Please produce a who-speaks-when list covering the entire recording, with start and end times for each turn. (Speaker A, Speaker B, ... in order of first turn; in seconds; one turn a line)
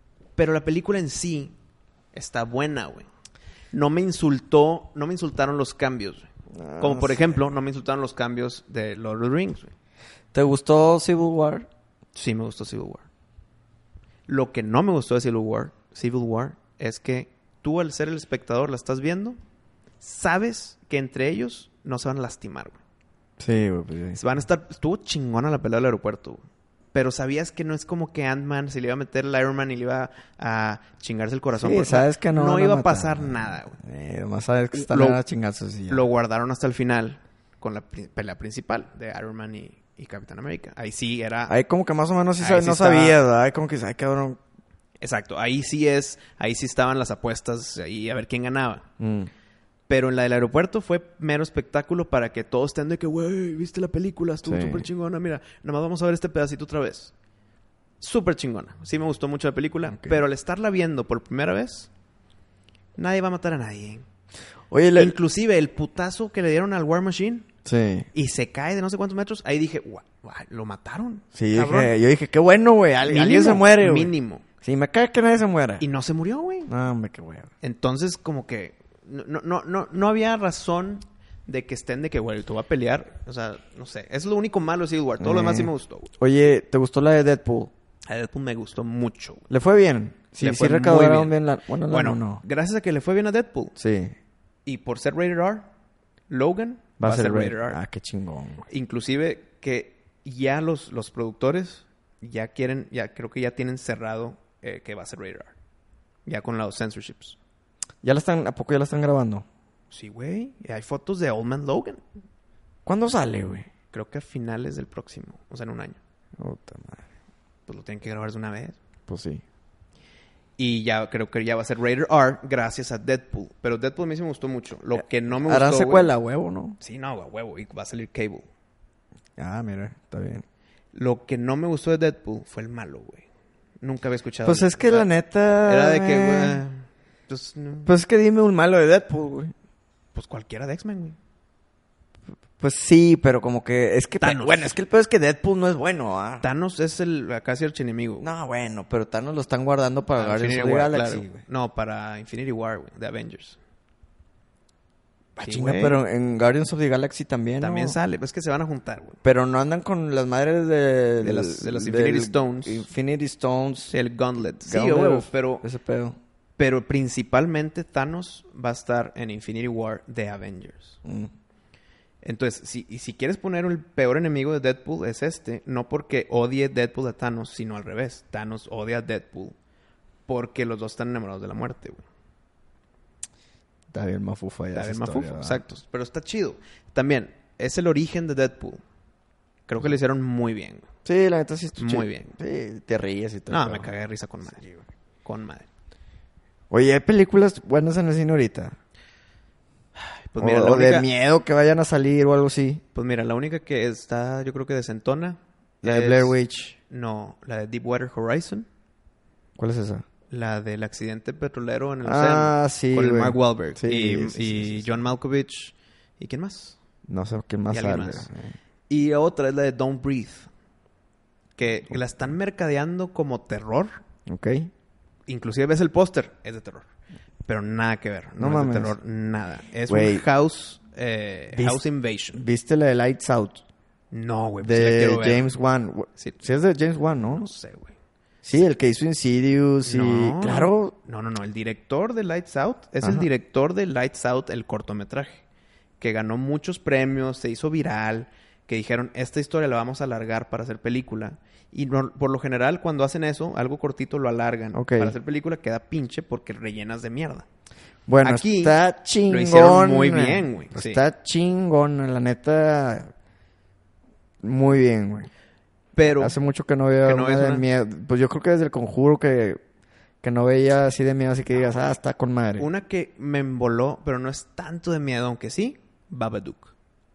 Speaker A: 0.4-1.5
Speaker A: 2.1-3.1
Speaker A: 3.7-6.3
Speaker B: 6.5-7.4
Speaker A: 6.8-9.7
Speaker B: 10.3-11.7
Speaker A: 12.1-13.1
Speaker A: 14.3-19.4
Speaker A: 20.0-22.8
Speaker B: 23.4-24.2
Speaker A: 24.2-26.4
Speaker A: 26.9-33.8
Speaker B: 31.6-36.1
Speaker A: 34.7-35.2
Speaker A: 35.9-41.5
Speaker B: 41.5-44.4
Speaker A: 42.4-43.2
Speaker A: 45.0-48.9
Speaker B: 49.0-49.3
Speaker A: 49.9-57.1
Speaker B: 54.4-54.9
Speaker A: 58.0-61.9
Speaker B: 59.9-60.2
Speaker A: 63.0-64.0
Speaker B: 64.7-65.1
Speaker A: 65.0-67.5
Speaker B: 67.6-68.1
Speaker A: 68.1-71.9
Speaker B: 71.3-75.8
Speaker A: 73.0-74.4
Speaker A: 75.8-76.7
Speaker B: 76.7-77.5
Speaker A: 77.6-86.1
Speaker B: 85.2-87.7
Speaker A: 88.1-89.5
Speaker B: 89.5-92.4
Speaker A: 90.4-91.3
Speaker A: 91.9-93.7
Speaker B: 93.8-94.1
Speaker A: 94.7-95.7
Speaker A: 96.3-97.8
Speaker B: 97.0-98.6
Speaker A: 98.7-105.5
Speaker A: 106.3-107.4
Speaker B: 108.0-109.5
Speaker A: 109.9-112.0
Speaker B: 112.9-113.7
Speaker A: 113.9-116.0
Speaker B: 116.4-117.0
Speaker A: 117.7-118.8
Speaker B: 119.1-119.4
Speaker A: 120.6-126.1
Speaker B: 125.0-126.8
Speaker A: 126.8-128.4
Speaker B: 129.4-130.4
Speaker A: 130.9-133.3
Speaker A: 133.8-135.1
Speaker B: 134.4-136.6
Speaker A: 135.6-137.9
Speaker B: 137.8-139.5
Speaker A: 140.1-141.2
Speaker B: 142.6-146.4
Speaker A: 144.2-144.7
Speaker A: 146.4-148.3
Speaker B: 148.2-151.4
Speaker A: 150.2-153.6
Speaker B: 155.4-158.0
Speaker A: 155.4-156.0
Speaker A: 157.6-159.2
Speaker B: 159.2-163.9
Speaker A: 161.2-162.8
Speaker A: 163.9-165.6
Speaker B: 164.6-166.2
Speaker A: 166.6-171.0
Speaker B: 171.1-171.3
Speaker A: 172.2-179.6
Speaker A: 180.3-182.0
Speaker B: 183.9-185.6
Speaker A: 184.7-188.8
Speaker A: 189.7-190.9
Speaker B: 191.1-193.9
Speaker A: 191.8-192.4
Speaker A: 193.5-194.6
Speaker B: 194.6-194.8
Speaker A: 195.2-195.7
Speaker B: 196.7-198.8
Speaker A: 199.9-201.1
Speaker B: 200.4-202.8
Speaker A: 202.9-206.3
Speaker B: 205.8-206.8
Speaker A: 206.9-208.7
Speaker B: 209.6-210.1
Speaker A: 210.3-216.8
Speaker B: 212.0-214.9
Speaker B: 217.1-218.6
Speaker A: 217.7-218.3
Speaker A: 218.9-220.5
Speaker A: 221.6-224.0
Speaker B: 224.3-224.7
Speaker A: 225.3-226.8
Speaker A: 227.4-232.4
Speaker B: 228.4-228.9
Speaker B: 229.9-230.3
Speaker B: 231.5-233.6
Speaker A: 234.1-235.5
Speaker B: 234.6-237.5
Speaker A: 237.2-237.9
Speaker B: 238.4-240.9
Speaker A: 239.8-245.4
Speaker B: 243.0-243.3
Speaker A: 246.0-257.4
Speaker B: 254.7-255.1
Speaker B: 258.1-263.1
Speaker A: 258.2-258.8
Speaker A: 259.3-261.0
Speaker B: 264.4-265.3
Speaker A: 265.9-266.4
Speaker B: 266.1-269.6
Speaker A: 267.1-267.6
Speaker B: 270.2-272.7
Speaker A: 272.6-276.7